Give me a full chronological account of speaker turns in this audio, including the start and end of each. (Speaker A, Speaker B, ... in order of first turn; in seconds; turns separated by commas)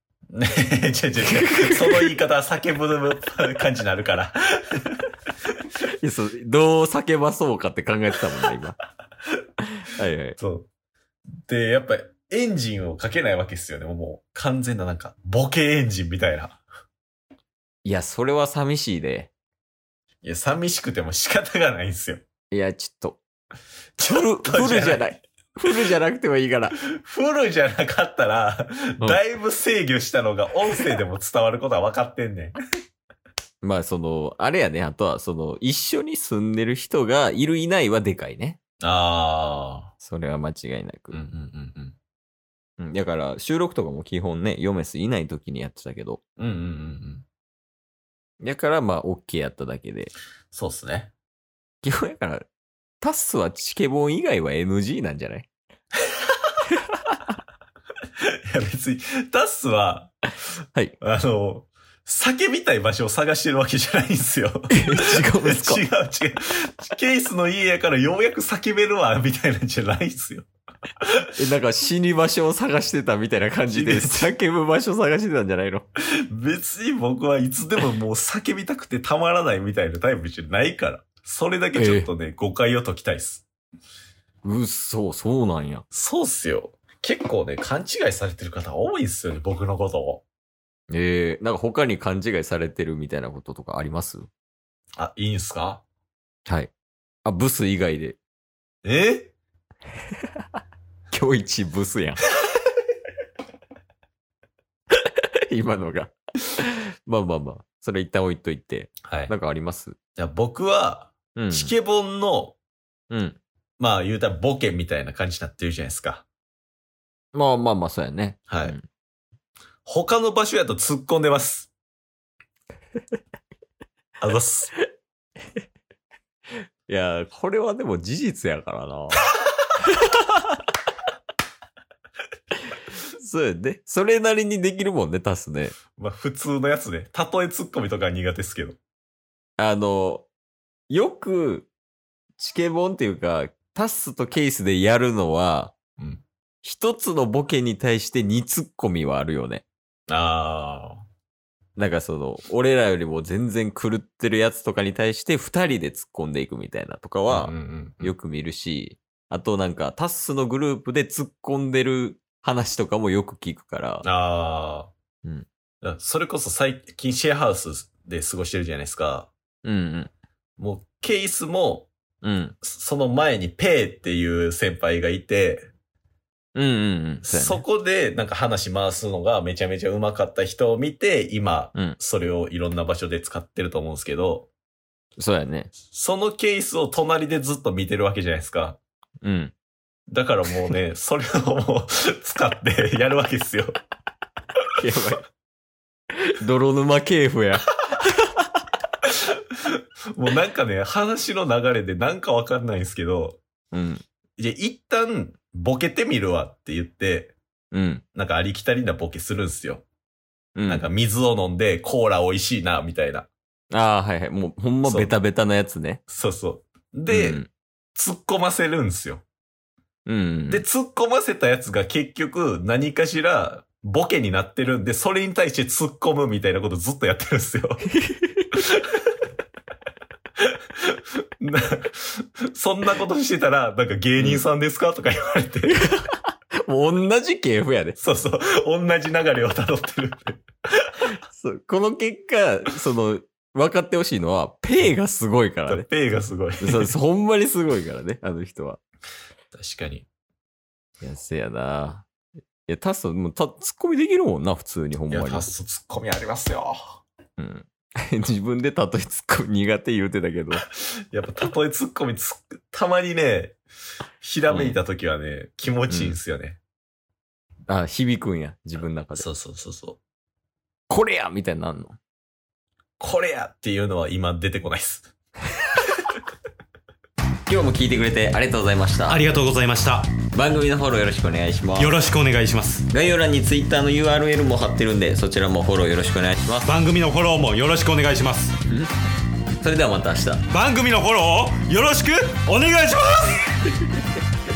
Speaker A: 0.3-4.9, Speaker B: 1.4-2.1, Speaker B: 6.0-8.8, Speaker B: 9.9-10.4, Speaker A: 10.4-10.7, Speaker A: 11.5-16.6, Speaker B: 17.9-19.3, Speaker A: 20.2-22.2, Speaker B: 22.5-23.2, Speaker A: 24.0-25.1, Speaker B: 24.0-26.8, Speaker A: 26.9-32.5, Speaker B: 33.6-38.6, Speaker A: 38.8-39.9, Speaker B: 40.0-41.2, Speaker A: 41.1-42.0, Speaker B: 42.8-46.2, Speaker A: 46.4-47.3, Speaker B: 48.4-50.1, Speaker A: 50.5-51.1, Speaker B: 51.8-52.5, Speaker B: 53.0-55.5, Speaker A: 58.5-60.1, Speaker A: 61.0-70.5, Speaker B: 64.7-65.8, Speaker B: 71.4-75.9, Speaker A: 73.7-74.3, Speaker A: 76.3-83.5, Speaker B: 81.7-82.1, Speaker B: 84.4-85.8, Speaker A: 85.9-90.2, Speaker B: 90.9-94.3, Speaker A: 95.0-95.8, Speaker B: 97.2-98.2, Speaker A: 98.8-99.3, Speaker B: 101.1-102.2, Speaker B: 105.5-110.0, Speaker A: 109.0-109.3, Speaker A: 110.2-112.6, Speaker B: 111.3-111.7, Speaker B: 113.1-113.4, Speaker A: 113.8-116.2, Speaker B: 117.3-118.9, Speaker A: 118.5-118.8, Speaker A: 119.9-121.7, Speaker A: 124.2-124.7, Speaker B: 126.9-129.2, Speaker B: 133.2-135.8, Speaker A: 136.0-138.8, Speaker B: 139.6-140.3, Speaker B: 140.9-141.7, Speaker B: 142.4-145.7, Speaker A: 146.0-146.2, Speaker B: 146.6-149.6, Speaker A: 150.1-151.0, Speaker B: 151.8-164.1, Speaker A: 157.3-158.1, Speaker A: 164.0-164.9, Speaker A: 165.8-169.3, Speaker B: 169.6-170.1, Speaker A: 170.6-171.9, Speaker B: 172.2-172.6, Speaker A: 172.6-175.7, Speaker B: 176.6-177.6, Speaker A: 177.2-184.5, Speaker B: 185.2-185.7, Speaker A: 185.9-188.8, Speaker B: 189.2-189.5, Speaker A: 190.1-193.7, Speaker B: 194.8-195.2, Speaker B: 196.2-197.8, Speaker A: 200.1-203.4, Speaker B: 203.7-204.0, Speaker A: 204.4-207.4, Speaker B: 207.7-208.0, Speaker A: 208.2-209.8, Speaker B: 210.6-210.9, Speaker A: 210.7-213.3, Speaker B: 213.7-216.0, Speaker A: 214.8-215.1, Speaker A: 216.1-217.4, Speaker B: 217.1-217.5, Speaker A: 217.9-219.2, Speaker B: 220.1-220.6, Speaker A: 220.5-227.8, Speaker B: 228.0-228.5, Speaker A: 228.5-228.9, Speaker A: 230.4-235.8, Speaker B: 234.2-234.4, Speaker B: 235.7-238.0, Speaker A: 238.0-240.4, Speaker B: 241.3-245.9, Speaker A: 245.7-246.9, Speaker B: 246.6-248.8, Speaker A: 249.5-250.1, Speaker B: 251.0-252.1, Speaker B: 252.7-255.5, Speaker A: 255.1-257.0, Speaker B: 257.4-260.6, Speaker A: 260.6-263.6, Speaker A: 264.2-266.6, Speaker B: 264.5-264.8, Speaker B: 265.9-266.2, Speaker B: 267.7-269.3, Speaker A: 269.2-270.0, Speaker B: 270.9-272.0, Speaker A: 273.0-275.1, Speaker B: 277.5-279.3, Speaker C: 279.1-279.9, Speaker A: 279.1-280.1, Speaker B: 280.3-282.0, Speaker C: 281.8-282.8, Speaker A: 281.8-282.8, Speaker B: 282.9-286.8, Speaker C: 286.6-288.6, Speaker A: 286.7-288.4, Speaker B: 289.6-290.5, Speaker C: 290.5-293.4, Speaker A: 290.6-292.7